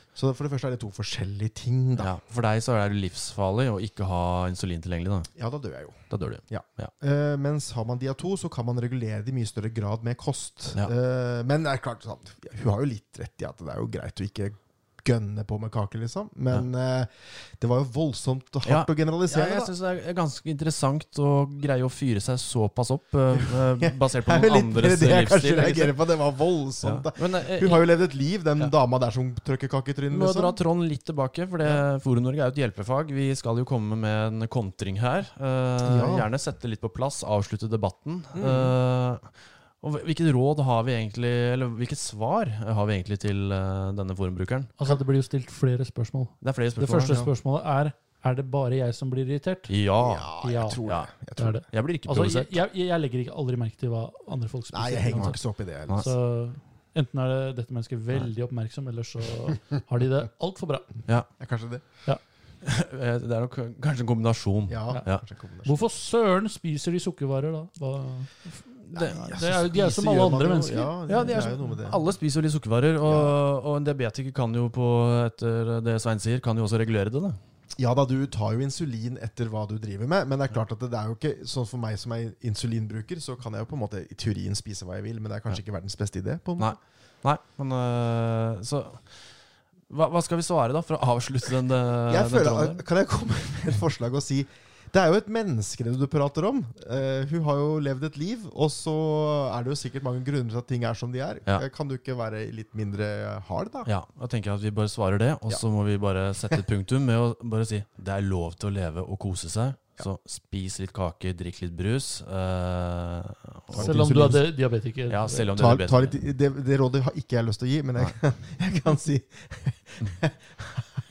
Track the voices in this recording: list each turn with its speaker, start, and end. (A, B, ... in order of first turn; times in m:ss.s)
0:00.1-0:02.1 A
0:02.0-0:05.3 B
0:05.3-0:19.7 A
0:06.1-0:06.9 B
0:18.6-0:25.9 B
0:23.3-0:30.6 A
0:26.8-0:27.8 B
0:30.1-0:44.7 B
0:35.8-0:36.3 A
0:38.3-0:38.7 A
0:44.8-0:49.7 C
0:46.4-0:47.3 B
0:49.7-0:50.3 B
0:50.0-0:51.5 A
0:50.4-0:50.8 C
0:50.8-0:51.1 B
0:51.4-0:55.4 C
0:51.6-0:52.6 B
0:54.7-0:56.1 A
0:56.0-1:00.9 C
1:01.4-1:01.8 A
1:02.6-1:05.2 B
1:04.7-1:05.8 A
1:05.6-1:11.7 C
1:08.8-1:09.4 B
1:08.9-1:12.0 A
1:11.1-1:17.4 B
1:13.0-1:13.3 A
1:17.8-1:26.8 A
1:26.6-1:29.1 B
1:29.9-1:32.8 B
1:32.1-1:43.9 A
1:43.8-1:54.4 B
1:53.7-1:54.4 A
1:53.7-1:55.5 C
1:55.1-1:56.2 B
1:55.6-2:00.9 A